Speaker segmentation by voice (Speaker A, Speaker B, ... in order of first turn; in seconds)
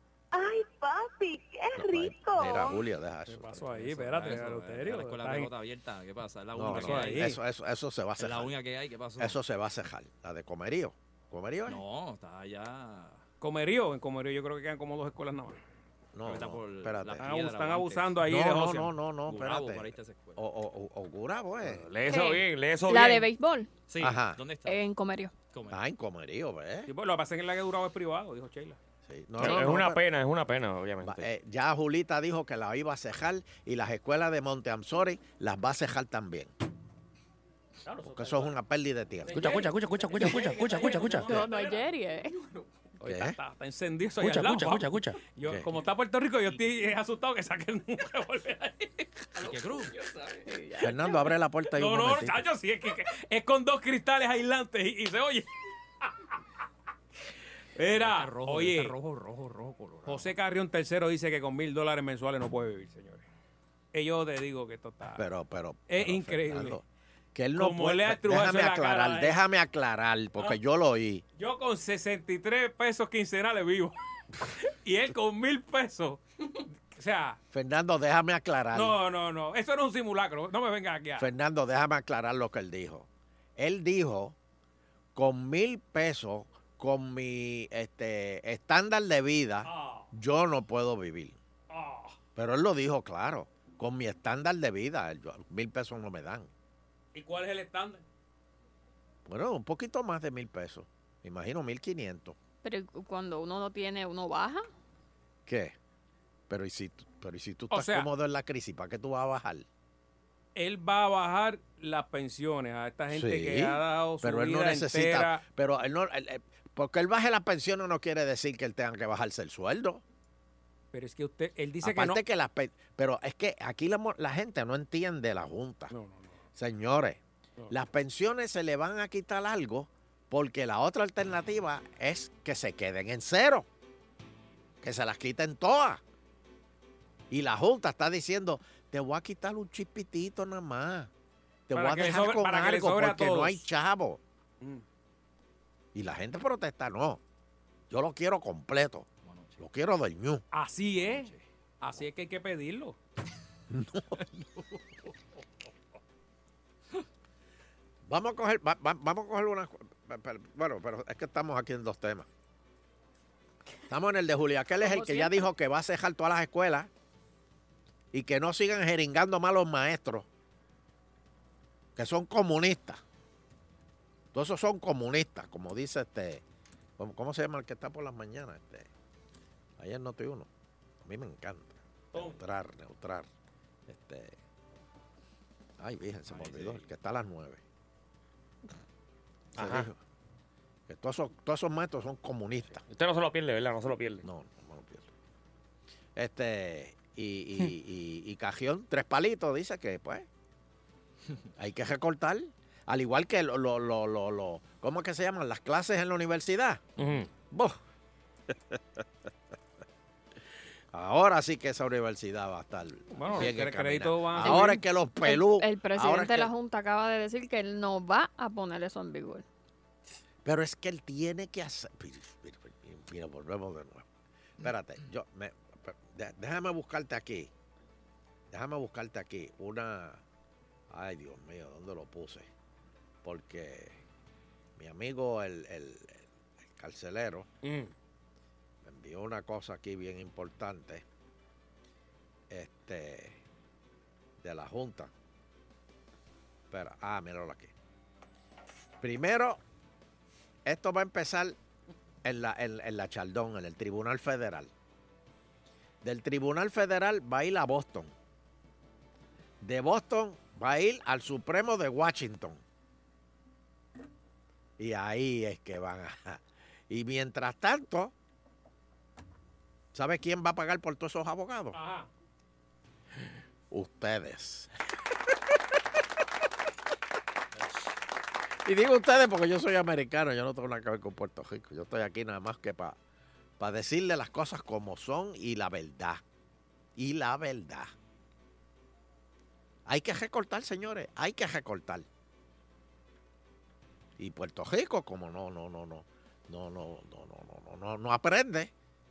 Speaker A: 0.3-2.8
Speaker B: 1.7-3.7, 6.5-8.5, 9.2-11.8, 16.1-17.3, 18.2-21.9, 24.0-24.4, 25.7-26.9, 29.0-30.0, 31.0-36.5, 38.0-39.5, 43.0-43.4, 50.8-52.4, 65.1-71.2, 77.5-79.0, 81.2-84.3, 85.1-91.4, 92.3-96.5, 99.2-102.4, 105.5-105.8, 106.5-109.7, 113.1-120.0, 121.8-125.9, 126.5-133.7, 134.8-136.0, 137.3-141.1, 141.7-144.2, 145.9-147.2, 147.9-149.1, 149.6-150.4, 153.7-154.2, 158.1-162.3, 163.9-166.9, 168.1-170.3, 171.9-173.0, 174.3-176.4, 177.0-178.9, 179.8-180.5, 181.0-183.3, 183.9-184.4, 185.8-187.6, 189.6-190.0, 190.9-192.8, 194.2-195.1, 196.2-200.3, 201.6-206.8, 207.5-207.8, 208.5-209.0, 210.9-216.5, 220.4-224.1, 224.6-227.5, 228.5-230.2, 230.9-232.5, 233.2-234.0, 234.8-237.5, 238.8-241.0, 242.5-243.4, 244.4-245.1, 246.7-247.7, 249.0-249.6, 250.6-251.6, 252.2-254.7, 256.0-258.1, 259.6-262.6, 264.8-268.1, 269.9-271.8, 273.7-274.7, 278.6-283.0, 283.6-286.2, 286.9-287.9, 289.9-292.1, 294.2-298.7
Speaker C: 3.3-5.5, 6.7-7.4, 13.4-15.6, 17.2-18.9, 26.9-28.8, 37.9-38.5, 39.3-41.8, 43.0-49.1, 51.7-55.5, 57.8-58.9, 60.1-63.2, 63.9-65.2, 65.9-66.8, 67.5-69.4, 71.4-73.9, 74.8-76.2, 76.9-77.4, 78.7-81.3, 89.7-90.1, 91.7-92.2, 97.1-98.0, 107.7-108.1, 110.5-115.4, 120.9-122.2, 125.9-126.3, 141.7-143.6, 150.5-153.0, 182.1-182.4, 213.1-214.8, 271.7-272.1
Speaker D: 3.7-7.3, 8.2-9.4, 11.7-13.2, 16.2-18.1, 19.3-20.4, 23.9-24.8, 25.5-25.8, 49.4-50.0, 57.9-60.3, 149.2-149.6, 151.0-151.4, 186.3-186.8
Speaker E: 21.6-23.3, 29.4-31.2, 39.3-41.4, 44.2-45.2, 189.6-189.9, 192.9-194.2, 207.0-207.3, 237.6-237.9
Speaker F: 22.0-23.7, 24.6-25.3, 41.2-42.4, 50.4-51.2, 102.6-104.7, 164.8-165.5, 214.4-219.4